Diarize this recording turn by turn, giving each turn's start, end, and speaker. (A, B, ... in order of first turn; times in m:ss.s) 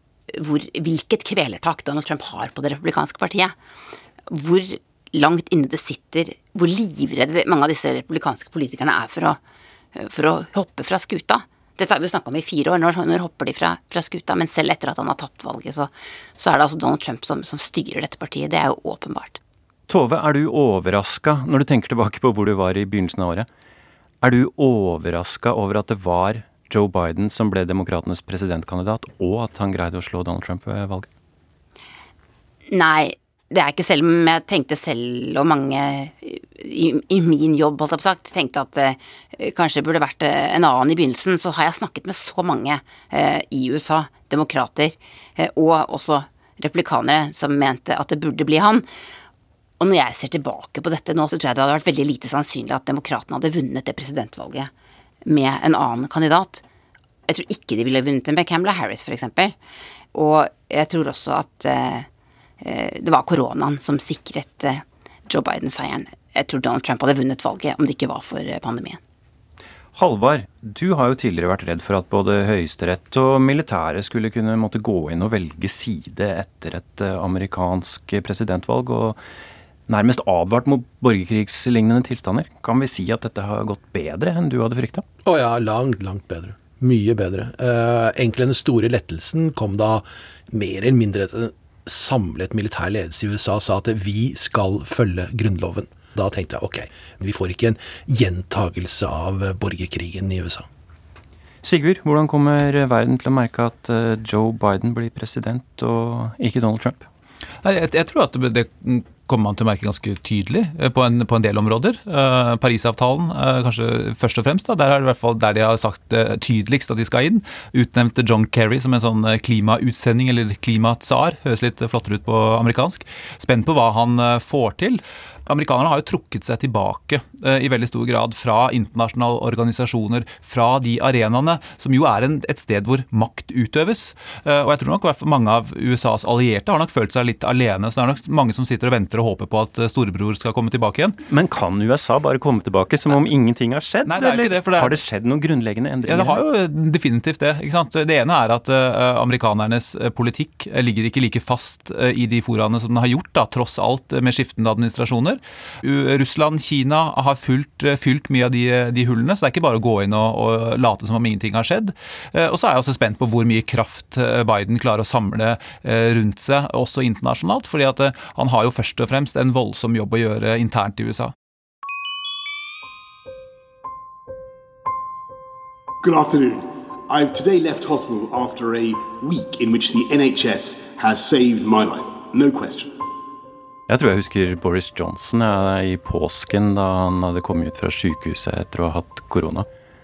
0:00.3-0:03.5 A
0:04.3-0:09.4 A
0:09.9-0:19.4 A
0:19.9-0:23.5 B
0:24.2-0:31.1 B
0:32.7-0:48.8 A
0:49.8-0:54.7 A
0:55.2-0:56.6 A
0:57.3-0:59.5 A
1:00.1-1:02.1 A
1:02.6-1:09.0 A
1:09.9-1:19.2 B
1:19.9-1:25.0 B
1:25.2-1:40.7 C
1:41.6-1:47.0 B
1:47.6-2:21.2 D
2:21.2-2:26.4 B
2:24.0-2:25.0 D
2:26.0-2:51.3 D
2:56.0-3:02.9 E
3:03.9-3:09.7 B